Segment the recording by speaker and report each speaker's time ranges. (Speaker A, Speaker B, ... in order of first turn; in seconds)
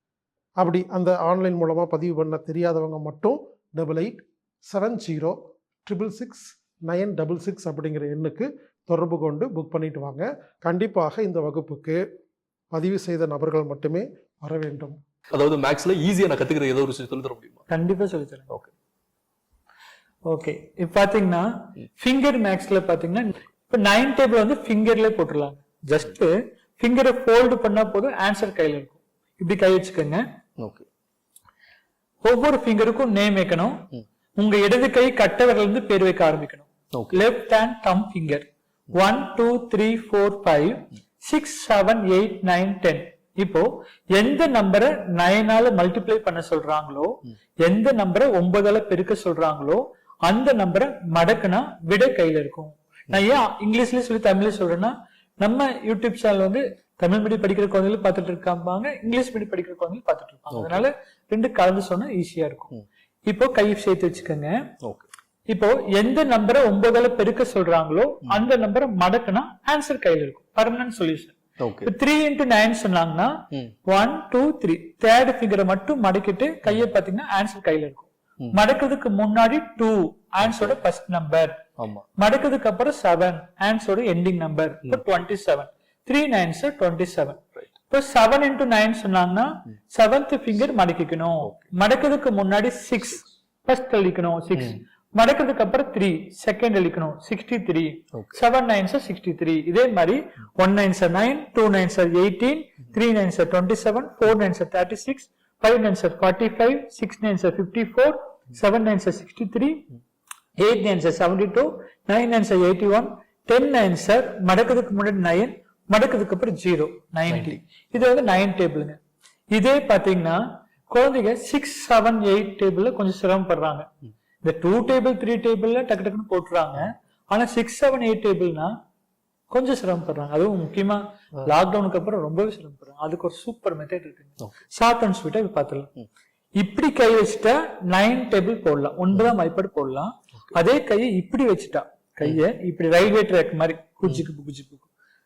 Speaker A: 0.6-12.0, 12.7-15.0
Speaker B: 15.3-17.7, 30.6-30.9, 36.9-37.2, 53.1-53.4, 60.5-60.9, 64.8-65.1, 71.6-71.9, 80.5-80.8, 81.8-82.1, 91.4-91.7, 117.3-117.6
Speaker C: 17.7-18.5, 20.3-30.2, 32.2-33.9, 34.4-62.7, 63.3-64.6, 65.5-81.6, 82.2-109.8, 110.6-119.0, 119.5-123.9, 124.4-128.8, 129.5-135.9, 136.6-144.9